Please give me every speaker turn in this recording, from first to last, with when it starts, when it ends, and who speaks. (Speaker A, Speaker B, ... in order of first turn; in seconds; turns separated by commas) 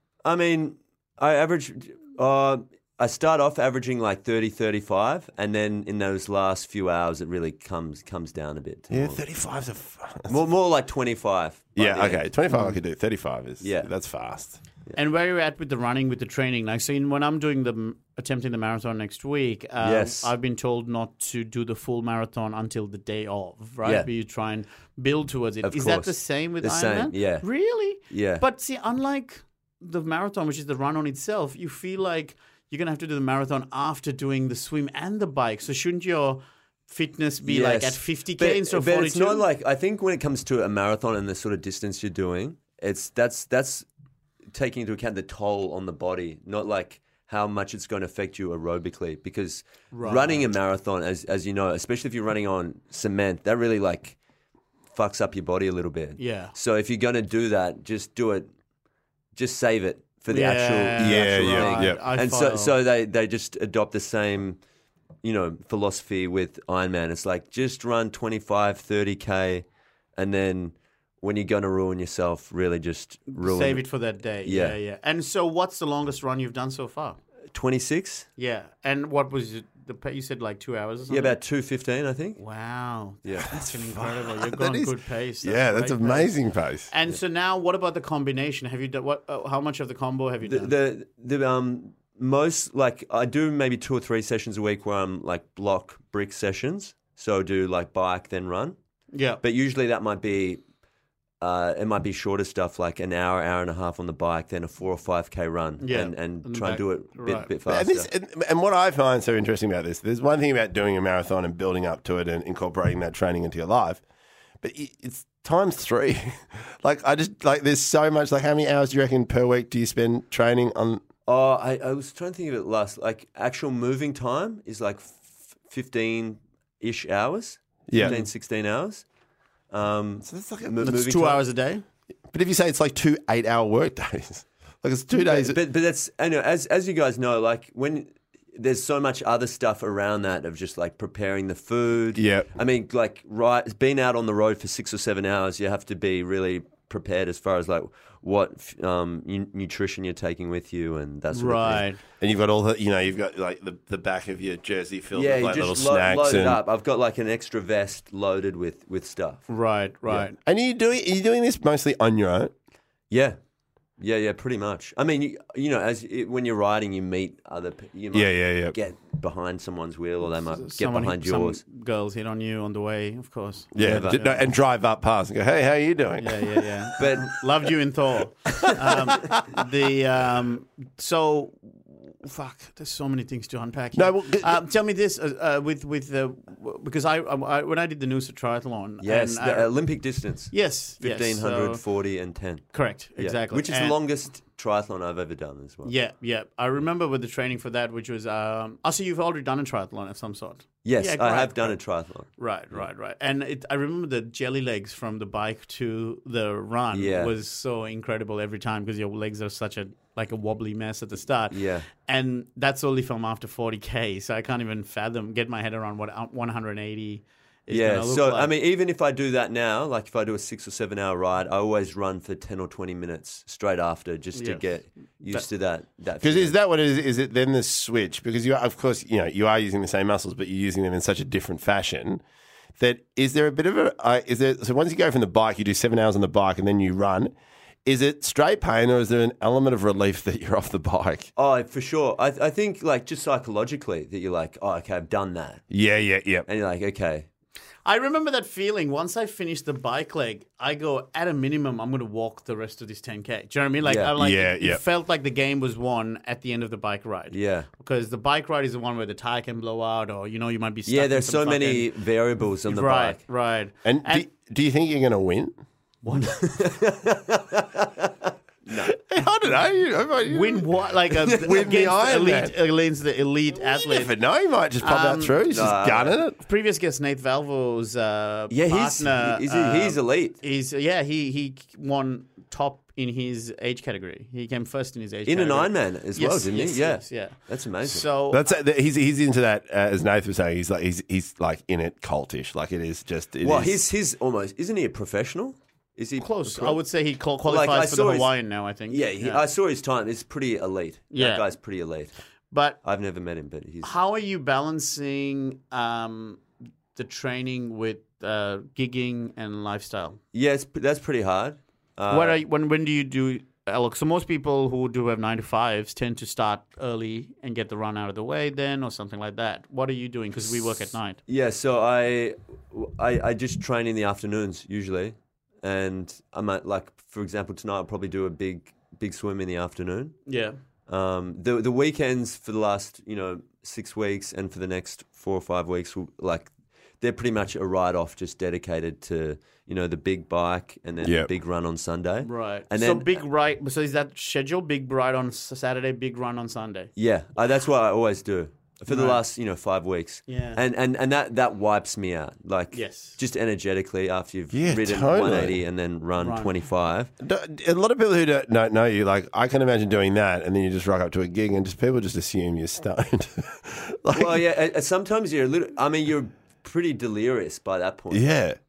Speaker A: 0.2-9.2, Speaker B: 8.9-10.4, Speaker A: 10.3-12.2, Speaker B: 11.8-14.6, Speaker A: 13.6-13.9, Speaker C: 14.9-39.5, Speaker A: 19.8-20.3, Speaker A: 25.6-27.5, Speaker A: 28.1-28.4, Speaker A: 37.4-43.9, Speaker A: 44.5-54.1, Speaker C: 49.9-50.5, Speaker A: 54.9-58.5, Speaker C: 56.2-56.5, Speaker A: 59.3-64.6, Speaker C: 60.3-62.7, Speaker B: 61.0-62.0, Speaker A: 65.2-69.6, Speaker A: 70.2-73.8, Speaker C: 73.3-77.2, Speaker A: 74.4-74.8, Speaker A: 77.5-78.3, Speaker C: 78.4-81.4, Speaker A: 81.1-82.4, Speaker C: 82.4-86.3, Speaker A: 83.2-83.5, Speaker B: 83.5-86.9, Speaker C: 86.9-90.7, Speaker A: 90.4-98.8, Speaker C: 99.1-99.4, Speaker A: 99.4-100.6, Speaker A: 101.4-108.1, Speaker C: 105.8-107.5, Speaker B: 107.7-114.0, Speaker B: 114.6-121.0, Speaker A: 121.2-129.0, Speaker B: 127.9-128.2, Speaker C: 127.9-128.2, Speaker A: 129.7-131.4, Speaker B: 130.2-130.8, Speaker C: 130.8-131.8, Speaker B: 132.3-135.6, Speaker A: 135.2-151.8, Speaker B: 142.1-142.5, Speaker C: 151.3-152.0, Speaker B: 152.2-156.6, Speaker A: 155.1-159.5, Speaker C: 159.5-160.4, Speaker B: 160.4-162.5, Speaker A: 163.1-163.4, Speaker A: 164.0-171.6, Speaker B: 168.1-168.7, Speaker C: 170.5-174.4, Speaker B: 173.7-177.1, Speaker A: 173.8-174.4, Speaker C: 176.2-191.8, Speaker A: 177.0-177.4, Speaker B: 183.9-184.6, Speaker A: 189.0-195.9, Speaker C: 192.7-193.9, Speaker C: 195.8-218.5, Speaker A: 200.8-202.8, Speaker A: 206.9-207.3, Speaker A: 211.5-211.8, Speaker A: 217.7-226.5, Speaker C: 224.3-224.6, Speaker B: 226.2-232.2, Speaker B: 232.8-237.3, Speaker B: 237.8-241.3, Speaker A: 241.3-245.6, Speaker B: 245.7-246.5, Speaker A: 246.5-247.3, Speaker C: 247.8-261.9, Speaker A: 253.8-254.1, Speaker B: 254.2-254.8, Speaker A: 257.3-257.7, Speaker A: 260.9-263.2, Speaker C: 262.6-264.2, Speaker B: 263.8-265.5, Speaker C: 266.0-266.5, Speaker A: 266.4-269.0, Speaker B: 268.9-272.5, Speaker C: 270.2-274.1, Speaker B: 273.6-276.4, Speaker C: 274.8-275.4, Speaker A: 275.5-276.2, Speaker C: 276.4-288.5, Speaker A: 278.5-280.4, Speaker A: 285.2-288.1, Speaker B: 288.3-293.8, Speaker A: 293.4-296.8, Speaker C: 296.2-299.4, Speaker A: 297.4-298.3, Speaker A: 298.9-302.1, Speaker C: 301.1-301.5, Speaker C: 302.5-302.8, Speaker A: 302.8-303.9, Speaker C: 303.8-306.4, Speaker C: 306.9-310.2, Speaker A: 310.3-312.4, Speaker C: 312.1-321.2, Speaker A: 321.3-330.2, Speaker C: 330.3-330.6, Speaker A: 330.9-336.5, Speaker A: 337.0-343.2, Speaker B: 341.0-341.3, Speaker C: 342.2-346.9, Speaker A: 346.9-357.1, Speaker C: 348.9-349.2, Speaker C: 350.3-350.6, Speaker C: 352.7-353.2, Speaker B: 354.5-355.6, Speaker C: 356.2-356.5, Speaker B: 357.2-364.4, Speaker A: 364.1-368.3, Speaker B: 368.1-368.6